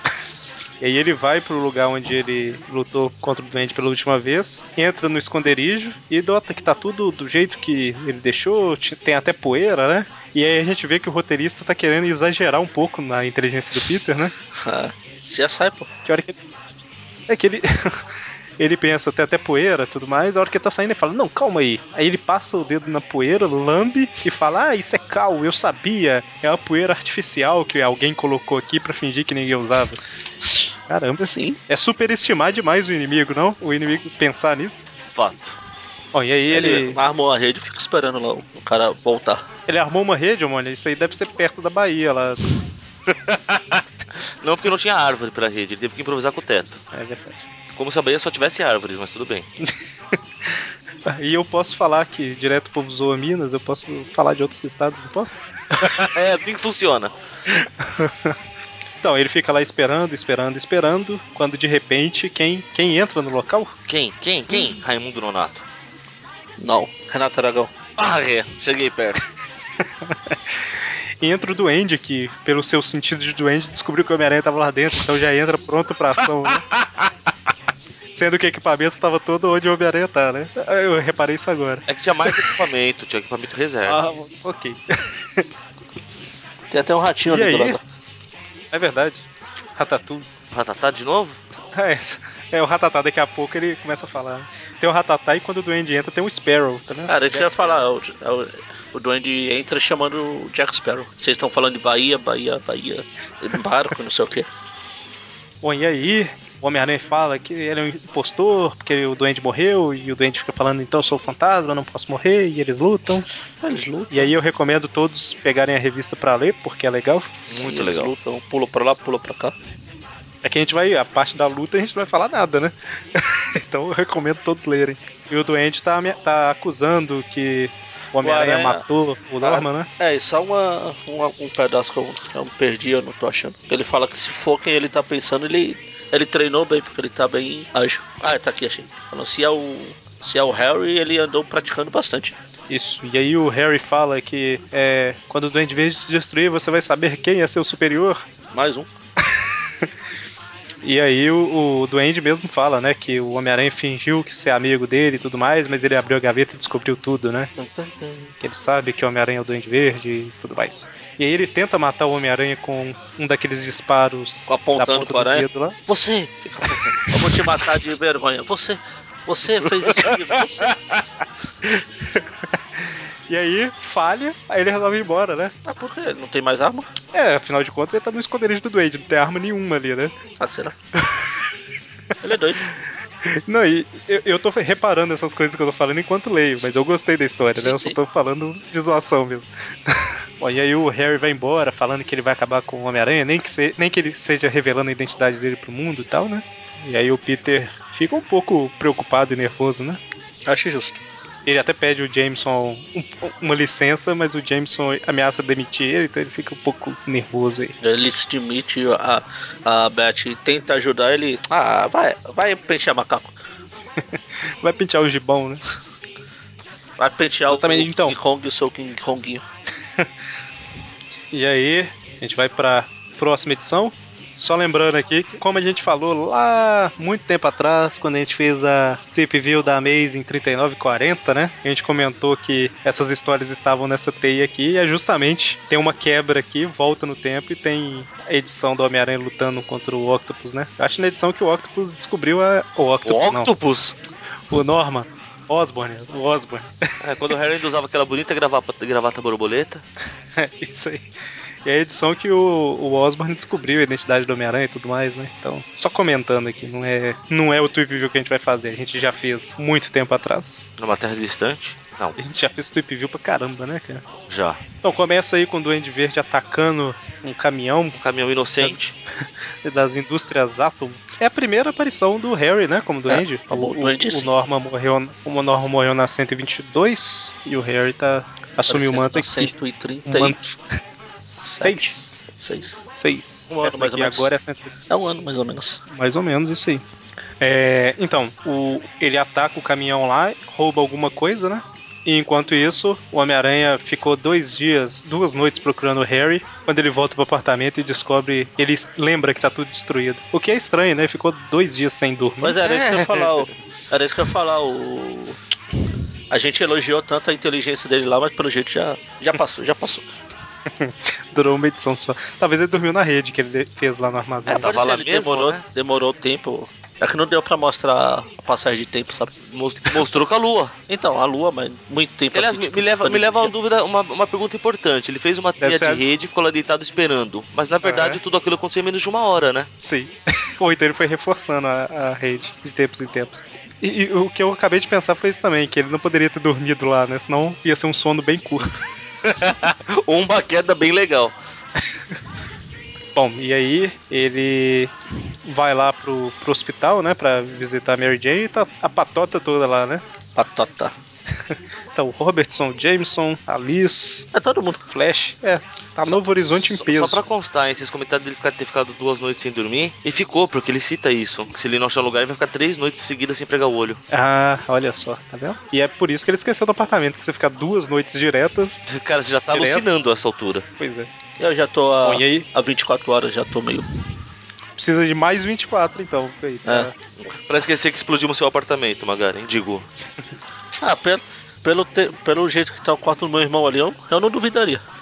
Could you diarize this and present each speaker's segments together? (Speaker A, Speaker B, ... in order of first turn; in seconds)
Speaker A: 0.8-14.3, 16.1-16.4, 17.3-18.0, 18.6-30.0, 30.9-34.9, 36.1-37.0, 39.7-42.4, 46.9-47.5, 50.5-55.3, 57.5-58.3, 59.0-63.7, 70.0-70.6, 71.2-76.7, 78.1-82.6, 83.9-85.5, 87.3-87.8, 88.7-90.3, 91.7-97.8, 105.6-113.3, 114.1-117.3, 120.4-129.9, 142.7-148.2, 150.8-157.5, 158.4-165.8, 171.6-175.5, 177.1-180.1, 181.0-181.4, 183.2-200.0, 201.4-207.7, 214.6-215.6, 217.4-218.2, 221.3-243.5, 244.5-246.9, 250.4-251.1, 251.6-260.7, 262.2-264.0, 264.8-268.0, 269.6-279.5, 280.1-280.6, 281.2-282.2, 282.9-284.7, 285.9-286.8, 287.4-302.6, 310.8-314.8, 325.6-326.0, 327.8-328.2, 329.8-338.8, 343.1-344.9, 345.4-350.0, 351.9-354.3, 354.9-357.2, 364.1-368.9, 369.5-369.9, 370.8-371.1, 372.0-372.4, 374.8-376.9
Speaker B: 14.5-15.9, 31.2-31.6, 36.5-39.5, 66.6-67.7, 86.7-87.8, 97.1-104.5, 113.6-114.3, 117.5-119.5, 128.2-128.8, 129.4-142.3, 148.5-148.9, 157.6-158.3, 164.5-170.7, 175.6-176.9, 180.4-180.7, 182.2-182.6, 187.5-187.9, 200.5-201.0, 207.8-213.3, 217.0-219.4, 273.1-274.3, 278.7-280.4, 281.6-282.8, 283.5-284.3, 284.9-285.8, 302.4-305.4, 306.3-310.1, 314.4-319.3, 320.9-323.5, 350.4-350.9, 354.3-354.8, 371.4-373.9, 380.8-384.8
Speaker C: 35.1-35.6, 43.1-46.8, 47.7-49.5, 55.8-57.1, 63.9-65.6, 68.0-69.2, 81.9-84.0, 90.5-91.4, 117.5-118.1, 169.8-171.0, 243.1-243.9, 247.0-249.8, 260.8-262.2, 264.3-264.6, 268.0-268.9, 302.6-303.5, 314.6-315.6, 319.4-320.7, 322.3-329.7, 339.2-341.4, 356.6-364.0, 368.9-370.6, 377.2-379.9